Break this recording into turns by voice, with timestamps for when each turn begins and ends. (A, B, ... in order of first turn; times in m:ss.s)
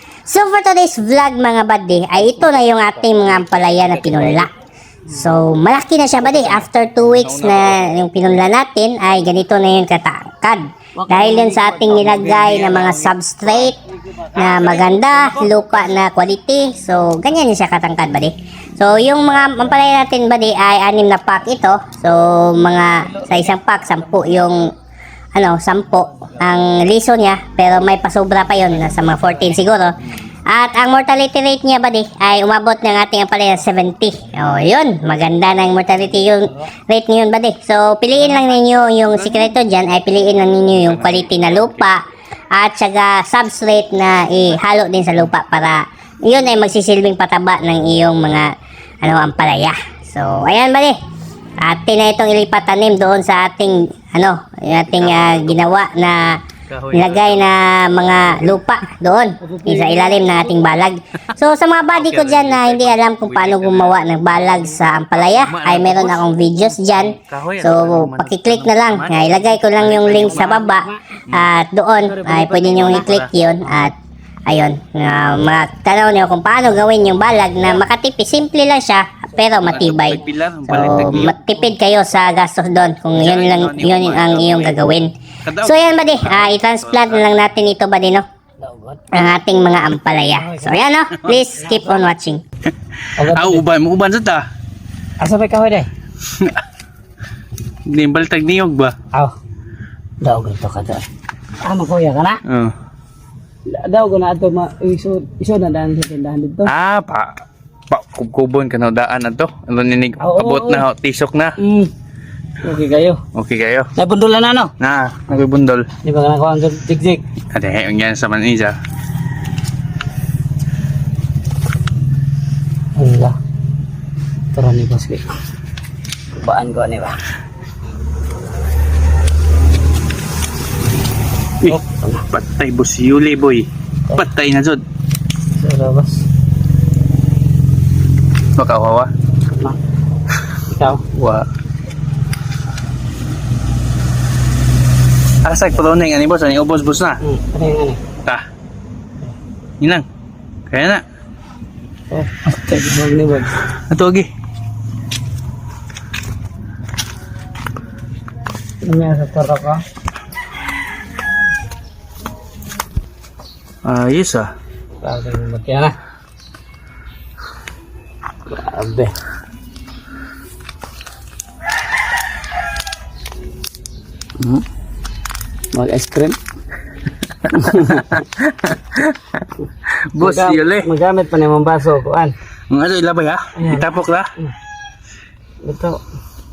0:00.3-0:04.5 A
0:03.6-0:04.5 B
0:05.1-0:13.8 A
0:07.2-0:07.9 C
0:11.0-0:15.7 B
0:14.4-0:24.7 A
0:23.0-0:23.6 B
0:25.4-0:30.0 A
0:28.6-0:29.6 B
0:30.5-0:42.0 A
0:39.1-0:39.6 C
0:40.7-0:41.9 C
0:42.6-0:48.5 A
0:49.0-0:51.0 A
0:51.6-0:56.4 A
0:54.9-0:55.6 C
0:56.7-0:57.5 C
0:56.9-1:13.9 A
0:59.4-1:00.8 B
1:01.9-1:10.6 C
1:09.9-1:11.0 B
1:12.0-1:13.9 B
1:12.7-1:13.3 C
1:14.5-1:25.1 A
1:19.6-1:21.3 C
1:23.2-1:24.9 C
1:25.4-1:27.3 C
1:25.6-1:28.2 A
1:28.6-1:29.0 B
1:29.1-1:32.4 A
1:30.3-1:30.8 B
1:31.6-1:32.1 B
1:33.2-1:33.6 B
1:33.3-1:34.5 C
1:35.2-1:35.9 B
1:36.3-1:36.6 C
1:37.9-1:39.0 C
1:40.2-1:41.1 B
1:41.6-1:42.4 B
1:42.5-1:42.8 C
1:43.7-1:46.7 B
1:46.7-1:47.3 C
1:47.9-1:51.6 C
1:50.2-1:50.9 B
1:51.6-1:51.9 B
1:52.6-1:53.2 B
1:53.3-1:53.9 C
1:54.0-1:54.7 B
1:54.8-1:55.9 C
1:56.0-1:57.2 B
1:57.5-1:58.8 C
2:03.0-2:03.4 B
2:04.5-2:05.3 B
2:06.4-2:07.2 B
2:11.6-2:14.8 C
2:11.6-2:12.3 B
2:15.6-2:16.2 B
2:18.6-2:19.1 C
2:20.7-2:21.1 B
2:21.1-2:21.5 C
2:25.4-2:27.2 C
2:27.2-2:28.0 B
2:29.8-2:30.1 C
2:30.7-2:31.0 C
2:32.1-2:33.6 B
2:33.9-2:34.3 C
2:38.8-2:39.8 B
2:43.8-2:44.5 C
2:45.0-2:46.0 B
2:48.5-2:49.1 B
2:55.7-2:56.4 B
2:57.4-2:59.5 C
2:57.6-2:58.1 B
3:00.1-3:00.9 C
3:00.2-3:02.4 B
3:02.7-3:04.3 C
3:03.6-3:03.9 B
3:05.6-3:06.0 B